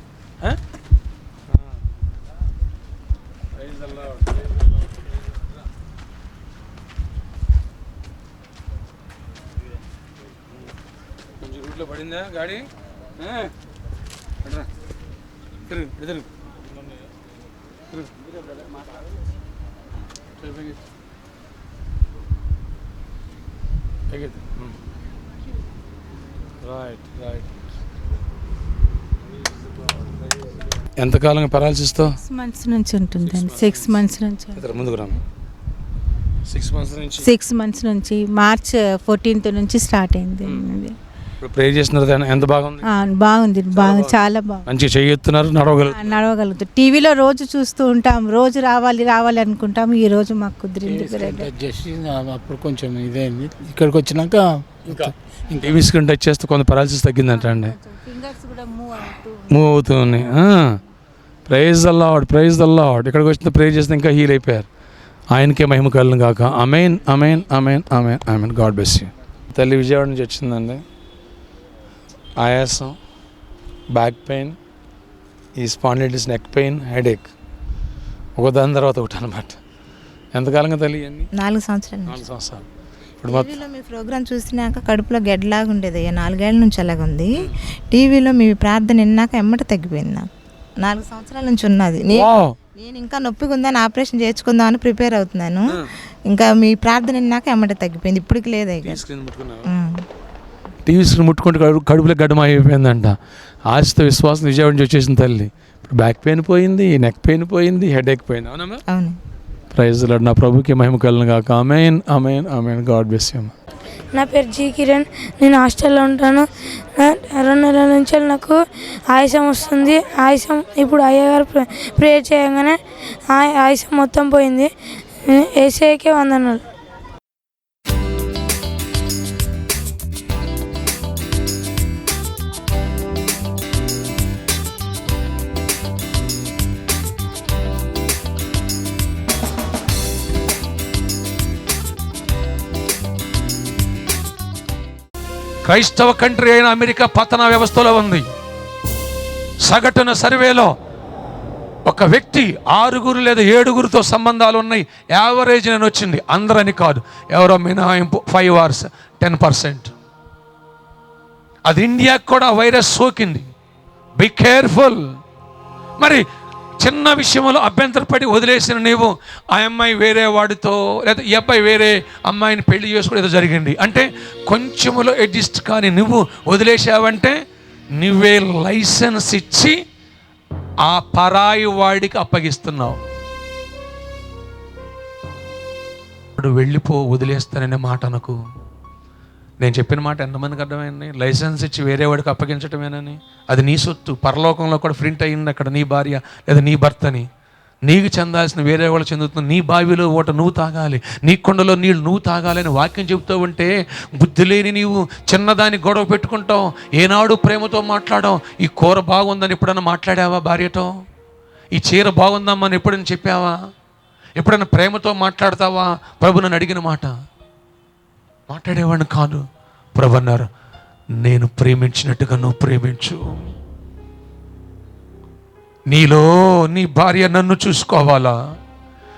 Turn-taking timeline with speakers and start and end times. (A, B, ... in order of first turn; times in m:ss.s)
0:03.6-0:04.3 A
0:11.4-0:13.5 A
0:15.7-0:16.3 A
0:20.4-0:20.8 A
0:24.1-0:24.7 A
0:26.6-0:27.4 A
0:31.0-0:32.2 A
0:32.1-0:34.6 B
0:33.2-0:33.9 A
0:34.5-0:35.2 A
0:36.5-0:37.3 A
0:37.2-0:40.9 B
0:41.4-0:42.9 A
0:42.9-0:44.6 B
0:43.7-0:46.1 A
0:45.9-0:51.5 B
0:50.8-0:55.8 C
0:54.9-0:57.7 A
0:57.3-0:59.6 B
0:59.5-1:00.7 A
1:01.5-1:04.7 A
1:05.3-1:10.8 A
1:12.4-1:13.0 A
1:13.9-1:14.6 A
1:15.6-1:17.3 A
1:18.4-1:19.6 A
1:20.3-1:21.3 A
1:21.4-1:22.2 D
1:22.1-1:22.6 A
1:23.2-1:23.6 A
1:23.2-1:27.3 D
1:27.9-1:30.3 D
1:30.8-1:35.8 D
1:32.1-1:32.6 A
1:36.3-1:39.0 D
1:38.8-1:39.7 A
1:39.7-1:40.0 D
1:40.8-1:43.2 A
1:43.7-1:48.8 A
1:48.9-1:49.2 D
1:49.7-1:53.5 A
1:54.1-2:04.7 E
2:05.2-2:06.6 E
2:25.6-2:28.3 A
2:29.6-2:30.7 A
2:31.9-2:39.9 A
2:41.6-2:43.4 A
2:44.2-2:45.2 A
2:46.0-2:46.2 A
2:46.8-2:57.4 A
2:58.0-2:59.8 A
3:00.8-3:03.0 A
3:06.4-3:08.4 A
3:09.6-3:17.3 A
3:17.8-3:30.9 A
3:31.7-3:33.5 A
3:34.4-3:37.1 A
3:38.5-3:39.4 A
3:40.0-3:40.5 A
3:41.2-3:43.2 A
3:45.9-3:48.3 A